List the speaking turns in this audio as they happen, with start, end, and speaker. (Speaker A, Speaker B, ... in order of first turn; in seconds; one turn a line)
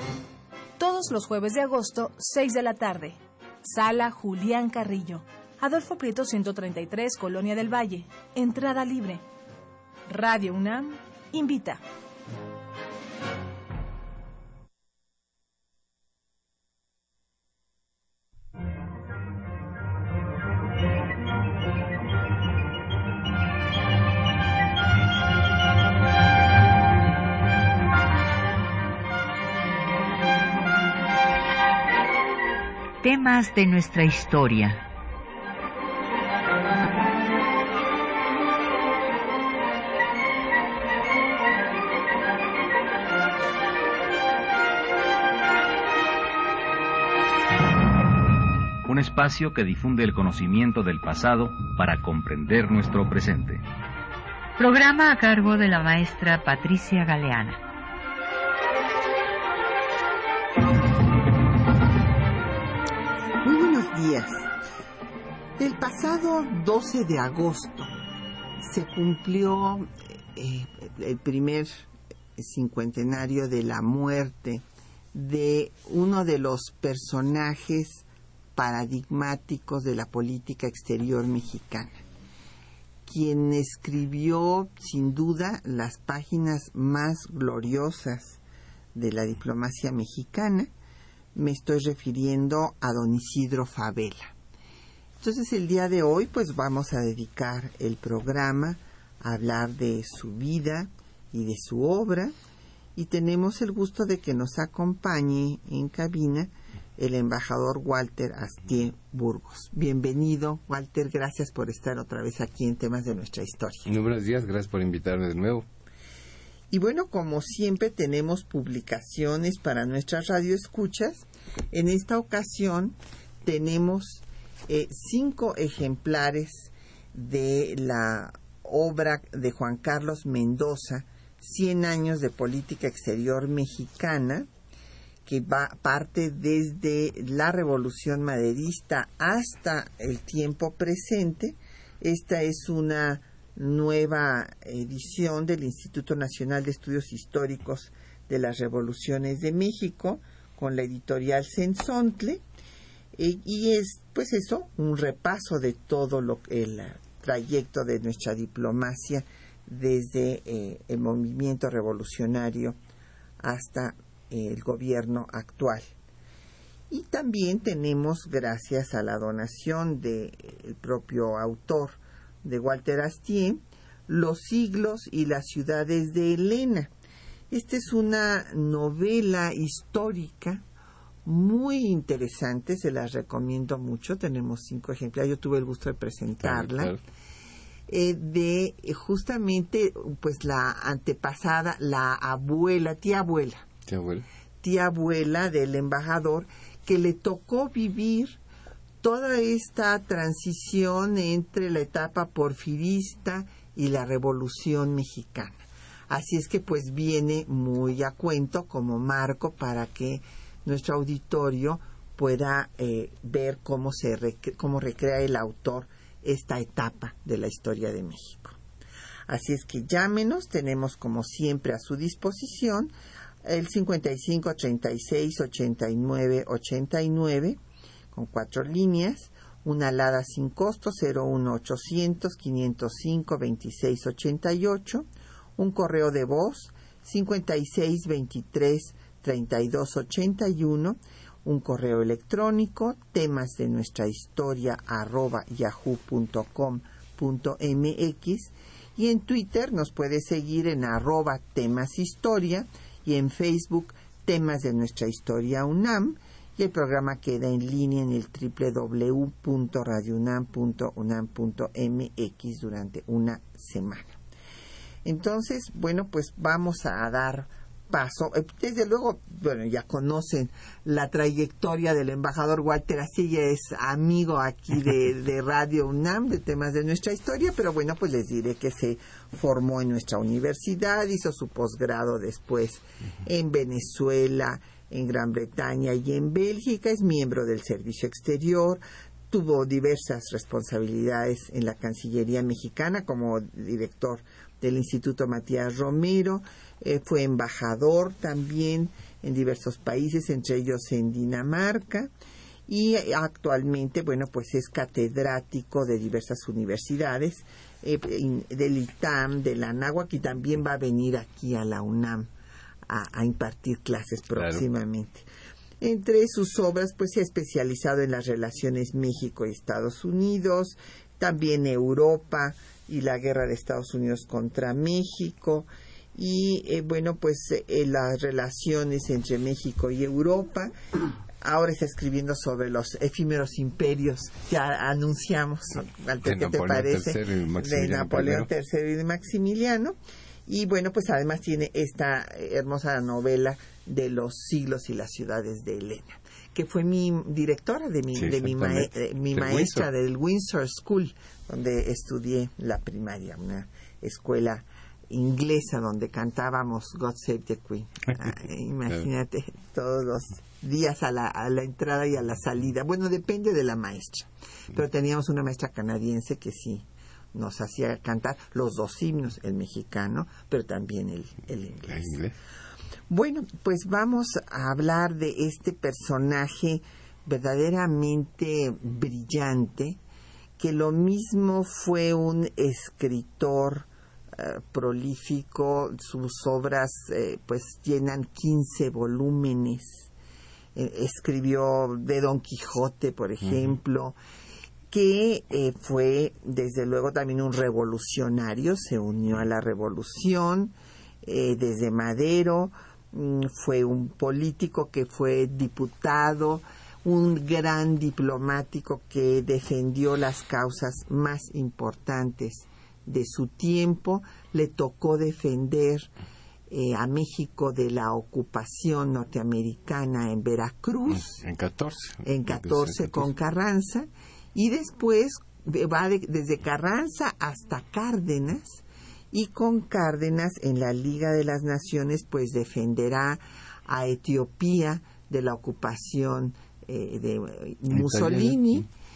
Speaker A: 0.8-9.2
Speaker A: 10.1-11.8
Speaker B: 33.0-34.8
Speaker C: 48.9-53.6
Speaker B: 54.6-57.6
Speaker D: 63.4-64.5
Speaker D: 65.6-67.9
Speaker D: 68.7-71.9
Speaker D: 72.4-78.0
Speaker D: 78.6-82.0
Speaker D: 83.1-88.4
Speaker D: 89.0-90.7
Speaker D: 91.3-94.3
Speaker D: 95.2-102.3
Speaker D: 103.0-113.9
Speaker E: 113.9-115.7
Speaker D: 116.7-134.5
Speaker D: 135.3-152.4
Speaker D: 153.2-162.8
Speaker D: 163.4-165.9
Speaker D: 166.9-176.9
Speaker D: 177.5-180.6
Speaker D: 181.2-186.9
Speaker E: 186.4-187.0
Speaker D: 187.9-193.7
Speaker E: 193.9-194.3
Speaker D: 194.6-198.4
Speaker D: 199.0-218.6
Speaker D: 219.3-222.9
Speaker D: 223.4-227.6
Speaker D: 228.1-264.2
Speaker D: 265.1-302.1
Speaker D: 302.7-312.3
Speaker D: 312.9-315.2
Speaker E: 314.4-314.6
Speaker D: 315.8-330.7
Speaker D: 331.4-340.0
Speaker E: 336.2-338.5
Speaker D: 340.5-372.2
Speaker E: 348.1-349.9
Speaker E: 371.8-372.4
Speaker D: 373.1-380.0
Speaker D: 380.6-390.1
Speaker D: 390.8-394.2
Speaker E: 393.4-393.7
Speaker D: 394.9-416.1
Speaker D: 416.7-421.4
Speaker E: 421.1-423.3
Speaker D: 422.2-438.9
Speaker E: 437.9-438.8